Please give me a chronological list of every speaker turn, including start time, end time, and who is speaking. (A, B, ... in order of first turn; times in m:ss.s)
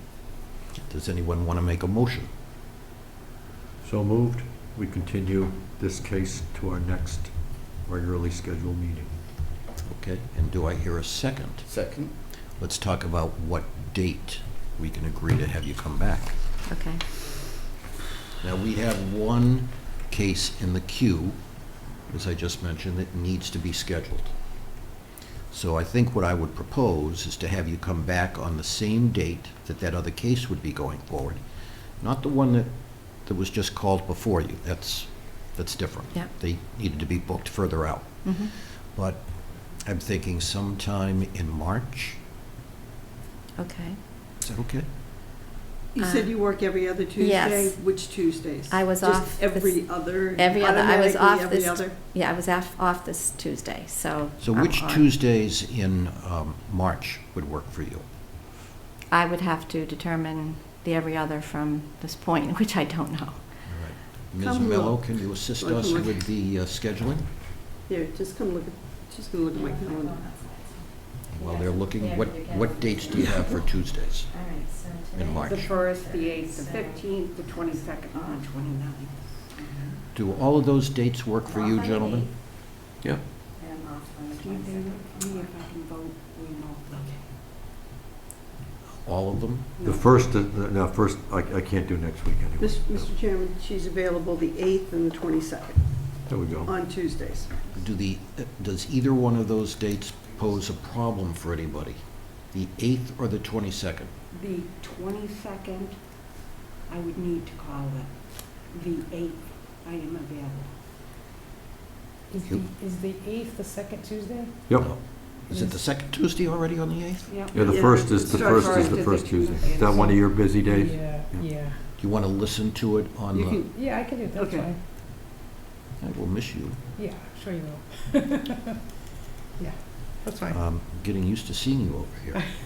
0:00.8-0:02.3 A
0:03.8-0:09.1 B
0:09.9-0:11.6 A
0:11.7-0:12.1 B
0:12.6-0:16.4 A
0:16.7-0:17.0 C
0:18.4-0:21.4 A
0:22.1-0:24.3 A
0:25.5-0:31.4 A
0:32.0-0:42.2 A
0:38.2-0:38.5 C
0:43.6-0:44.0 C
0:44.4-0:44.9 A
0:45.9-0:51.9 D
0:46.0-0:46.4 C
0:47.2-0:47.8 C
0:48.7-0:55.0 C
0:54.4-0:58.0 A
0:59.1-1:03.4 C
1:03.6-1:07.3 A
1:04.4-1:06.2 D
1:07.9-1:10.2 D
1:09.6-1:13.5 C
1:11.3-1:14.3 A
1:14.3-1:17.0 C
1:15.1-1:15.7 A
1:15.4-1:19.3 E
1:17.7-1:18.4 C
1:19.5-1:20.0 C
1:20.1-1:22.3 A
1:21.5-1:22.3 C
1:23.6-1:25.5 C
1:24.4-1:27.3 E
1:29.0-1:29.7 A
1:29.8-1:30.2 E
1:29.8-1:33.1 B
1:32.6-1:37.6 D
1:36.3-1:36.7 B
1:37.7-1:44.1 A
1:44.3-1:46.1 E
1:46.9-1:50.7 E
1:52.3-1:54.6 F
1:54.7-1:54.9 B
1:54.7-1:57.4 A
1:55.5-1:55.8 F
1:57.3-2:00.5 E
1:57.5-2:01.5 B
1:57.6-1:59.0 D
2:00.0-2:01.8 F
2:02.0-2:03.6 A
2:03.3-2:03.7 D
2:03.7-2:04.8 F
2:04.4-2:04.7 D
2:06.0-2:06.8 A
2:07.0-2:08.6 F
2:09.6-2:10.6 F
2:10.5-2:12.4 A